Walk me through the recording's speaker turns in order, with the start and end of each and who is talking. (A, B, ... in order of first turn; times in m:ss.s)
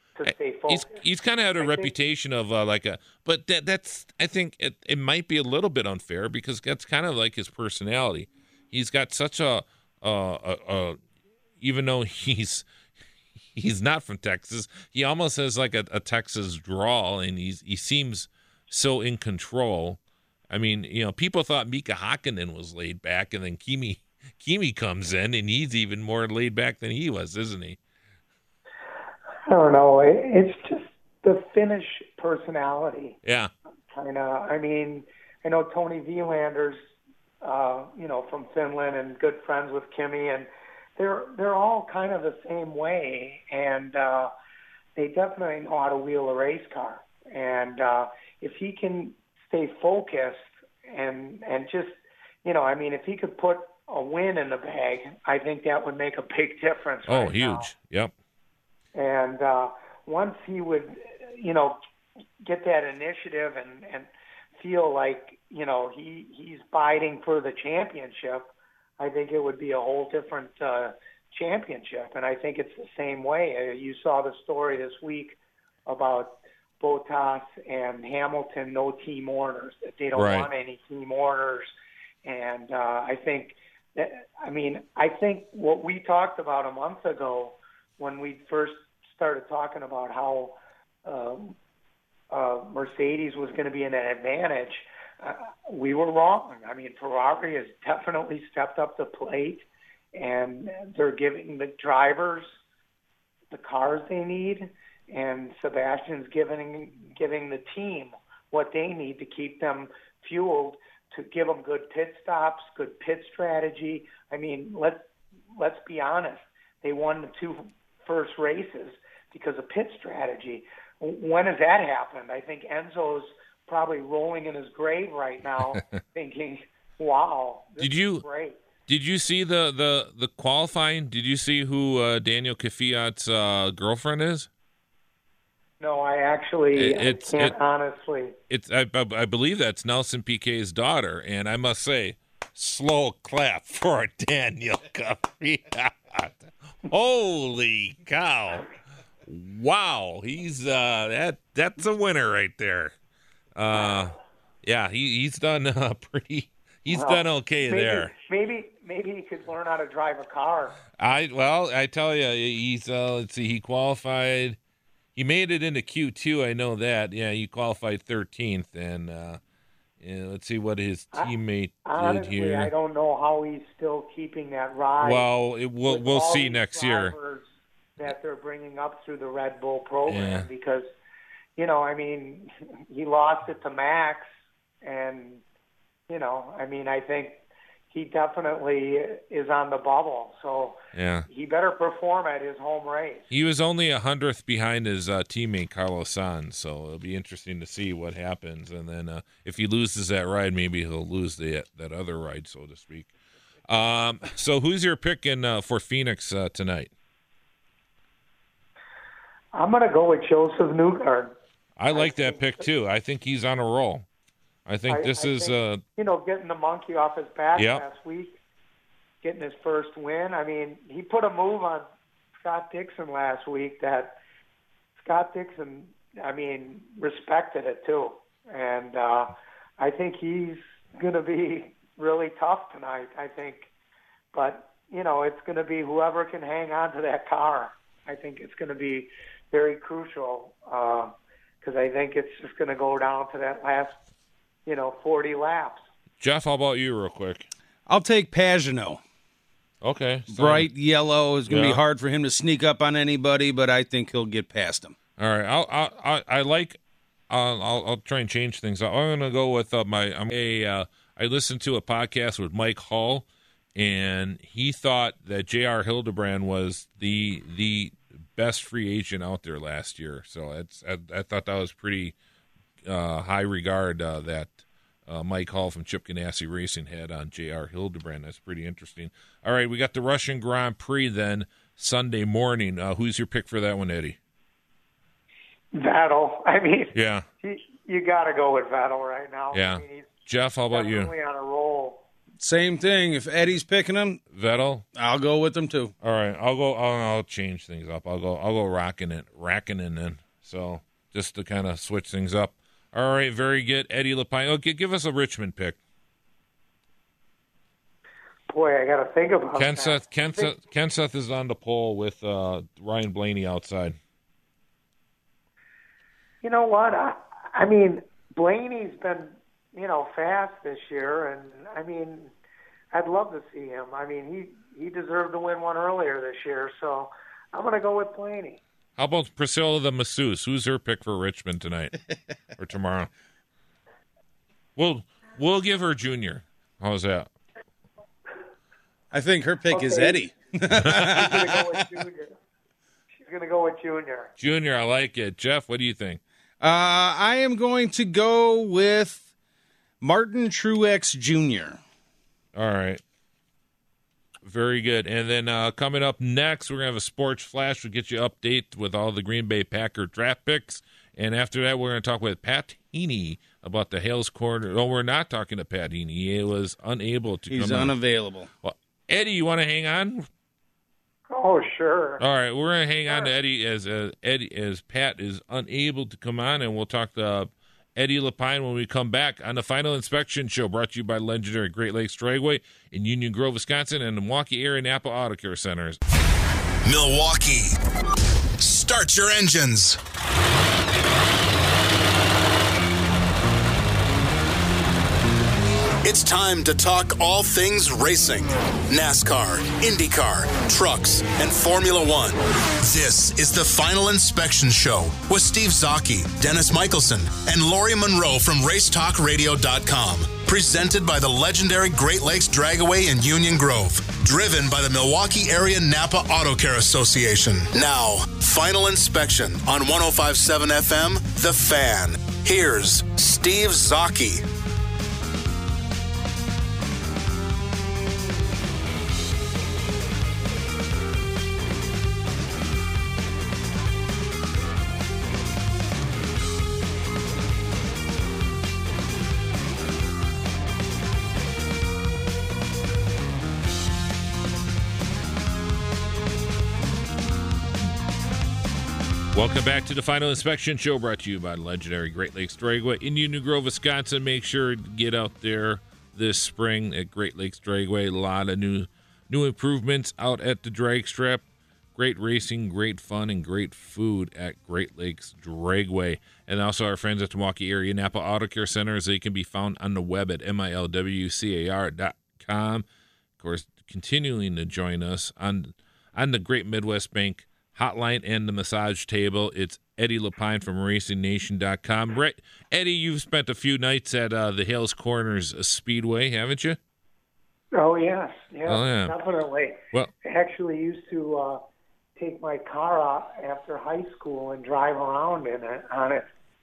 0:00.2-0:01.0 A
0:00.2-0:11.0 B
0:01.6-0:01.9 A
0:11.6-0:12.6 B
0:13.5-0:27.8 B
0:29.5-0:33.2 A
0:33.2-0:33.5 B
0:33.9-0:36.8 A
0:37.4-0:44.3 A
0:45.0-0:57.7 A
0:57.0-0:58.1 B
0:58.9-1:01.8 A
1:02.4-1:21.7 A
1:20.1-1:20.5 B
1:22.2-1:31.6 A
1:32.3-1:42.5 A
1:43.5-2:08.6 A
2:07.8-2:08.2 B
2:08.9-2:14.5 B
2:15.8-2:18.4 A
2:16.7-2:17.6 B
2:18.5-2:28.7 B
2:29.2-2:32.9 B
2:33.6-2:38.1 B
2:36.9-2:40.8 A
2:41.0-2:44.6 B
2:45.2-2:49.4 B
2:50.0-2:52.7 B
2:51.8-2:55.3 A
2:55.0-2:57.1 B
2:55.8-2:57.5 A
2:58.0-3:00.9 A
3:00.0-3:00.5 B
3:01.6-3:04.3 A
3:04.8-3:05.4 A
3:06.1-3:13.2 A
3:10.9-3:11.3 B
3:13.3-3:23.1 B
3:23.7-3:26.9 B
3:29.5-3:31.3 A
3:31.8-3:34.0 B
3:31.9-3:32.7 A
3:34.6-3:35.8 B
3:34.9-3:38.4 A
3:37.5-3:37.8 B
3:39.2-3:41.8 A
3:42.4-3:44.2 A
3:45.0-3:53.7 A
3:54.3-4:04.0 A
4:04.6-4:05.8 A
4:06.2-4:07.5 B
4:07.9-4:09.0 C
4:09.8-4:10.7 B
4:10.3-4:14.9 C
4:11.5-4:11.8 B
4:15.2-4:16.8 B
4:17.3-4:32.1 B
4:32.8-4:44.2 B
4:45.7-4:52.0 A
4:46.9-4:47.2 B
4:49.5-4:51.1 B
4:52.4-4:54.2 C
4:54.3-4:54.8 B
4:55.0-4:55.9 C
4:56.0-5:05.8 B
5:08.5-5:10.5 A
5:09.5-5:14.0 B
5:16.4-5:22.3 A
5:22.9-5:28.6 A
5:29.0-5:32.0 B
5:32.6-5:33.1 B
5:34.8-5:37.3 B
5:39.1-5:41.8 C
5:39.7-5:40.2 A
5:40.9-5:41.2 B
5:41.0-5:42.3 A
5:43.2-5:44.3 A
5:44.4-5:46.2 B
5:46.6-5:49.2 C
5:50.0-5:51.8 C
5:52.5-5:53.0 B
5:54.4-6:07.9 B
6:07.5-6:08.5 C
6:08.6-6:10.3 B
6:11.3-6:12.2 A
6:12.2-6:26.0 B
6:26.8-6:27.7 D
6:28.6-6:30.0 D
6:36.0-7:04.4 D
7:29.3-7:41.4 B
7:42.0-7:52.8 B
7:53.4-8:06.8 B
8:07.7-8:11.6 A
8:08.6-8:09.2 B
8:12.2-8:16.3 A